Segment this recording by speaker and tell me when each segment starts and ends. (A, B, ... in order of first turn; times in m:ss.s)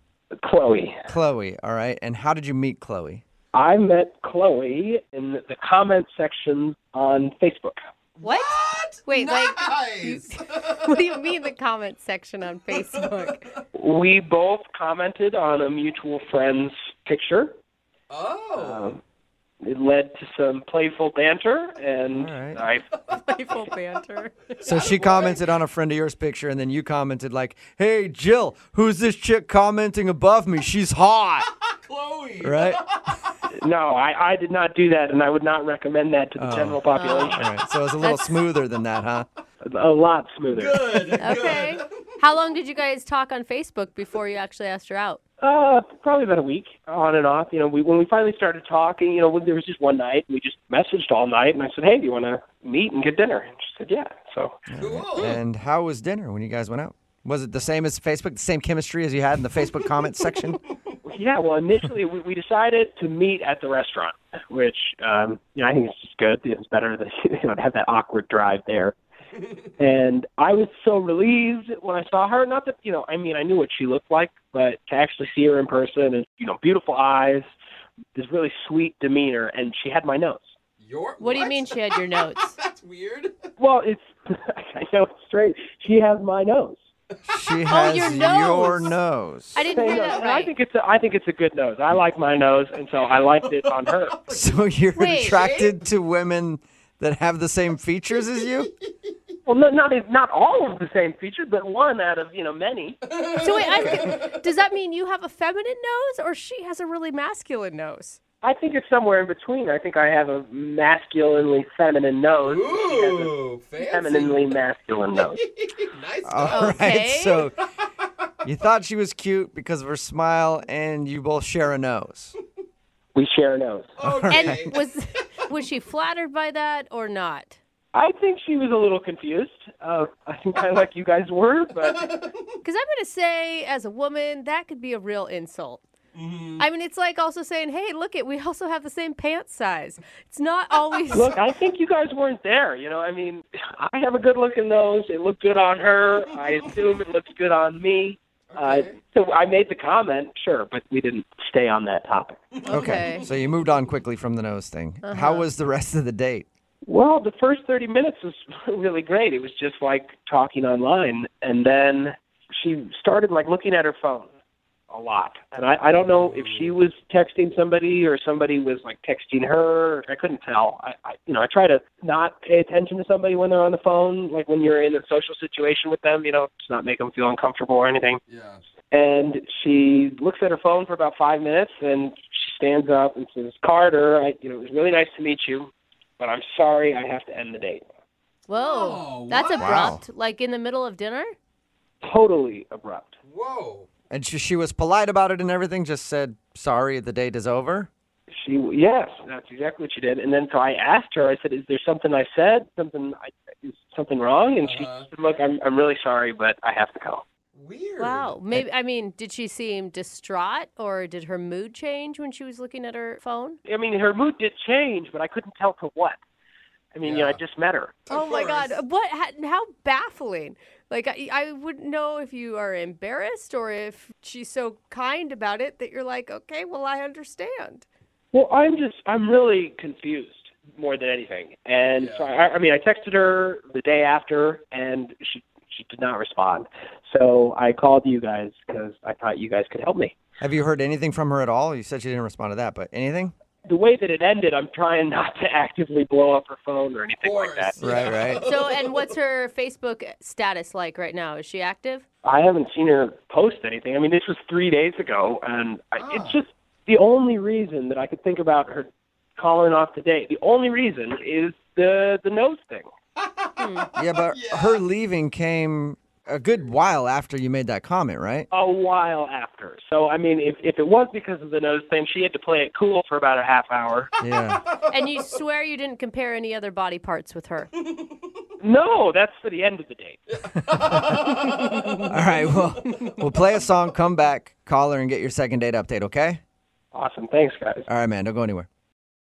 0:00.4-0:01.0 A
0:01.0-0:03.2 B
0:03.5-0:07.8 A
0:08.2-0:11.0 C
0:08.2-0:13.5 D
0:12.8-0:13.5 C
0:13.8-0:17.6 A
0:18.1-0:18.9 C
0:18.6-0:19.0 A
0:19.6-0:22.9 A
0:22.2-0:22.6 B
0:23.1-0:24.7 D
0:24.6-0:25.5 C
0:24.6-0:31.5 B
0:31.6-0:33.2 C
0:32.4-0:32.8 B
0:33.5-0:37.4 A
0:36.4-0:36.8 B
0:36.9-0:37.4 D
0:37.3-0:39.3 B
0:38.0-0:38.4 D
0:39.6-0:40.9 A
0:40.5-0:42.1 C
0:41.2-0:45.2 D
0:45.4-0:54.7 A
0:54.7-1:00.6 B
0:54.8-0:55.4 C
1:01.0-1:08.9 A
1:09.8-1:17.4 A
1:18.2-1:20.5 A
1:20.8-1:23.5 C
1:21.2-1:22.6 D
1:23.6-1:26.8 A
1:27.3-1:29.6 B
1:27.7-1:28.9 D
1:29.5-1:30.5 D
1:29.7-1:34.3 A
1:34.3-1:38.7 B
1:35.0-1:35.5 D
1:35.2-1:35.7 C
1:39.5-1:43.0 A
1:43.1-1:44.3 C
1:43.3-1:48.2 D
1:48.4-1:55.4 A
1:52.4-1:54.6 C
1:55.1-1:56.9 C
1:56.2-1:57.6 B
1:56.5-1:57.4 D
1:58.4-2:02.3 B
2:03.2-2:03.9 A
2:04.0-2:04.8 C
2:04.0-2:04.6 B
2:04.3-2:07.6 D
2:07.9-2:12.2 A
2:11.9-2:12.5 C
2:12.6-2:15.8 D
2:16.2-2:16.6 C
2:16.6-2:21.4 D
2:21.1-2:32.4 A
2:28.5-2:29.0 C
2:32.5-2:33.1 C
2:32.6-2:33.2 D
2:32.7-2:36.5 B
2:35.0-2:35.4 D
2:36.9-2:44.3 A
2:44.9-2:58.2 A
2:46.2-2:46.8 C
2:58.3-2:58.6 C
2:58.9-3:07.8 A
3:08.5-3:11.3 D
3:08.5-3:09.9 C
3:09.6-3:10.0 B
3:12.0-3:13.2 A
3:13.3-3:13.9 C
3:14.1-3:17.9 B
3:18.3-3:27.2 A
3:24.6-3:25.1 C
3:27.6-3:28.4 C
3:28.0-3:33.6 D
3:33.6-3:36.2 A
3:37.0-3:38.1 A
3:37.0-3:37.4 C
3:38.1-3:38.8 C
3:38.1-3:47.8 D
3:48.3-4:00.1 A
3:52.0-3:52.3 C
4:00.4-4:03.3 B
4:03.7-4:07.8 A
4:07.2-4:09.1 C
4:07.8-4:08.5 B
4:08.4-4:12.0 D
4:12.2-4:22.9 A
4:16.0-4:16.4 C
4:23.2-4:24.8 C
4:23.6-4:23.9 D
4:24.0-4:28.5 B
4:28.5-4:34.1 A
4:34.2-4:34.6 B
4:34.9-4:37.7 D
4:38.6-4:40.2 A
4:40.4-4:43.1 C
4:40.6-4:41.3 B
4:42.1-4:46.4 B
4:46.9-4:47.8 A
4:47.9-4:48.7 B